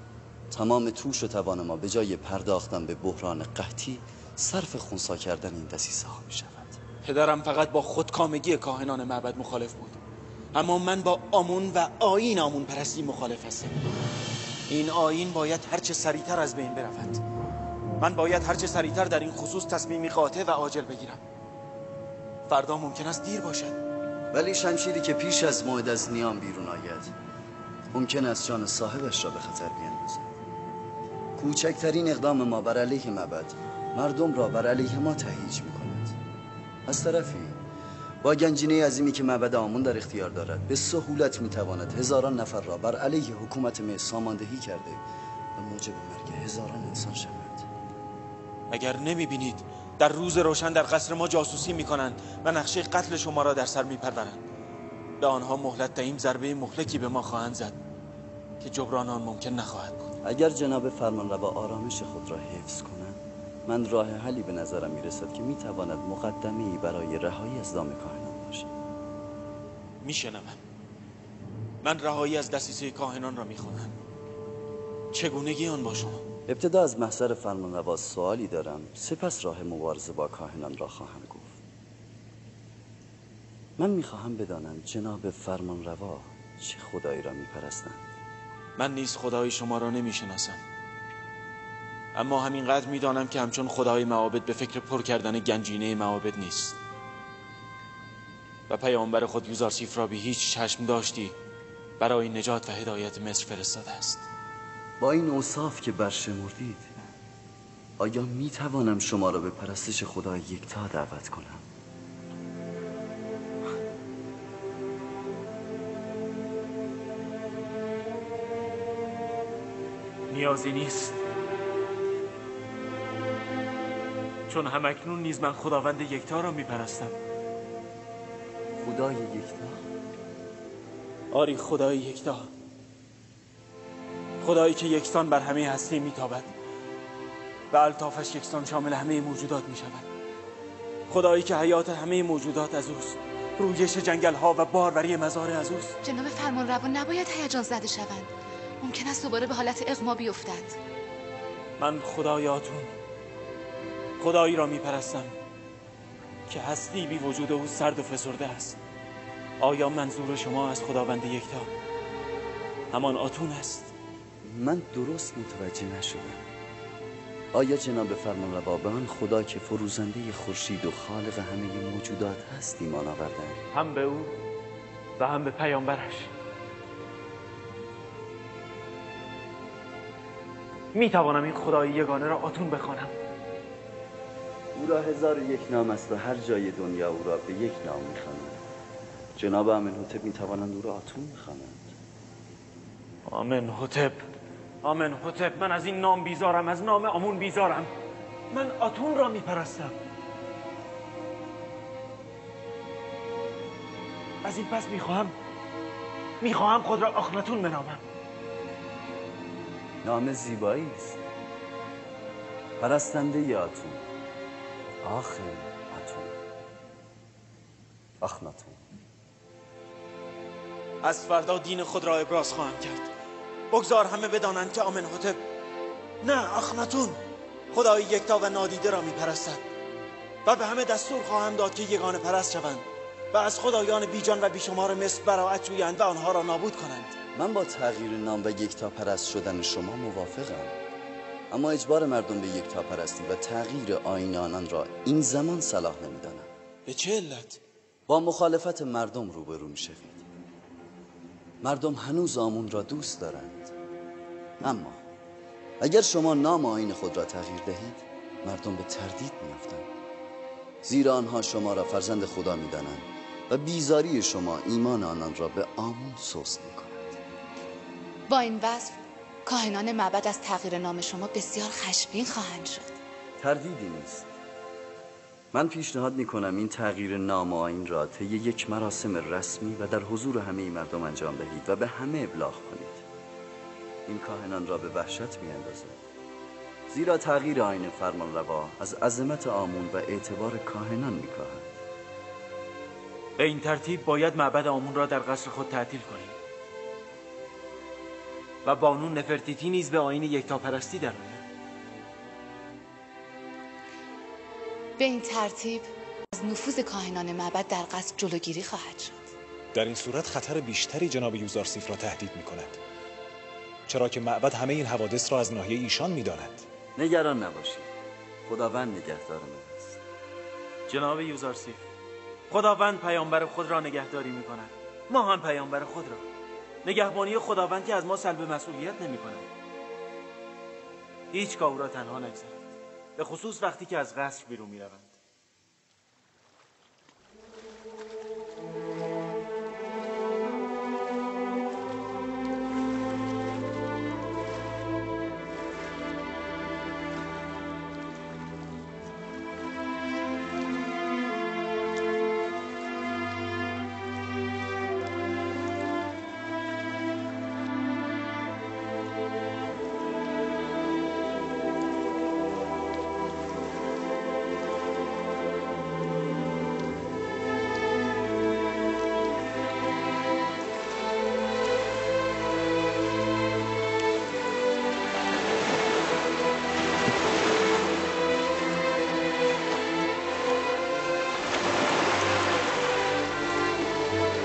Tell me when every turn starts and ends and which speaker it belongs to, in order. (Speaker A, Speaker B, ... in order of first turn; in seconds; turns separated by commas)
Speaker A: 0.5-6.8, Speaker B: 7.0-10.0, Speaker B: 10.5-13.8, Speaker B: 14.7-17.2, Speaker B: 18.0-21.2, Speaker B: 22.5-23.8, Speaker A: 24.3-27.1, Speaker A: 27.9-30.4, Speaker A: 31.4-36.2, Speaker A: 36.9-37.6, Speaker A: 38.2-45.0, Speaker A: 45.6-47.7, Speaker B: 48.7-54.4, Speaker B: 55.2-57.8, Speaker B: 58.6-60.1, Speaker A: 60.2-68.7, Speaker B: 70.0-70.6, Speaker B: 71.8-73.9, Speaker B: 75.1-76.2, Speaker A: 76.5-81.6, Speaker A: 83.8-88.1, Speaker B: 88.8-90.6, Speaker B: 92.1-96.8, Speaker B: 98.7-101.3, Speaker B: 102.0-104.3, Speaker A: 105.0-106.9, Speaker A: 108.0-111.6, Speaker B: 120.3-121.2, Speaker B: 124.5-127.2, Speaker A: 128.8-129.8, Speaker B: 131.3-132.5, Speaker B: 134.4-136.5, Speaker B: 137.7-140.1, Speaker B: 141.1-146.0, Speaker C: 146.0-148.3, Speaker C: 148.8-150.8, Speaker B: 151.8-152.9, Speaker B: 154.2-155.3, Speaker B: 156.5-158.8, Speaker B: 159.6-161.7, Speaker B: 162.9-163.9, Speaker A: 164.4-166.5, Speaker A: 167.5-173.6, Speaker B: 173.7-174.3, Speaker B: 175.2-176.3, Speaker B: 180.9-183.1, Speaker A: 184.7-188.6, Speaker A: 189.4-191.9, Speaker B: 193.3-194.2, Speaker B: 194.8-197.9, Speaker B: 198.5-200.0, Speaker B: 204.4-205.3, Speaker B: 206.4-208.0, Speaker A: 210.0-211.2, Speaker A: 212.8-214.1, Speaker A: 215.0-216.4, Speaker A: 218.2-218.8, Speaker B: 221.0-223.1, Speaker B: 223.7-225.4, Speaker B: 226.2-227.2, Speaker B: 227.7-229.6, Speaker B: 230.4-237.1, Speaker A: 237.3-240.8, Speaker A: 241.5-246.5, Speaker B: 246.9-247.6, Speaker A: 248.1-250.3, Speaker A: 251.6-253.7, Speaker A: 254.6-255.0, Speaker A: 255.8-259.9, Speaker A: 260.8-267.2, Speaker C: 268.3-273.0, Speaker A: 273.4-274.3, Speaker A: 275.5-283.0, Speaker A: 284.1-286.0, Speaker A: 286.9-291.7, Speaker B: 293.4-296.4, Speaker B: 298.6-301.4, Speaker C: 305.0-309.3, Speaker D: 309.7-312.8, Speaker D: 313.9-316.7, Speaker A: 317.0-317.9, Speaker A: 318.4-320.0, Speaker B: 320.9-321.8, Speaker B: 322.5-326.2, Speaker B: 326.8-329.5, Speaker B: 331.3-332.6, Speaker B: 333.2-335.1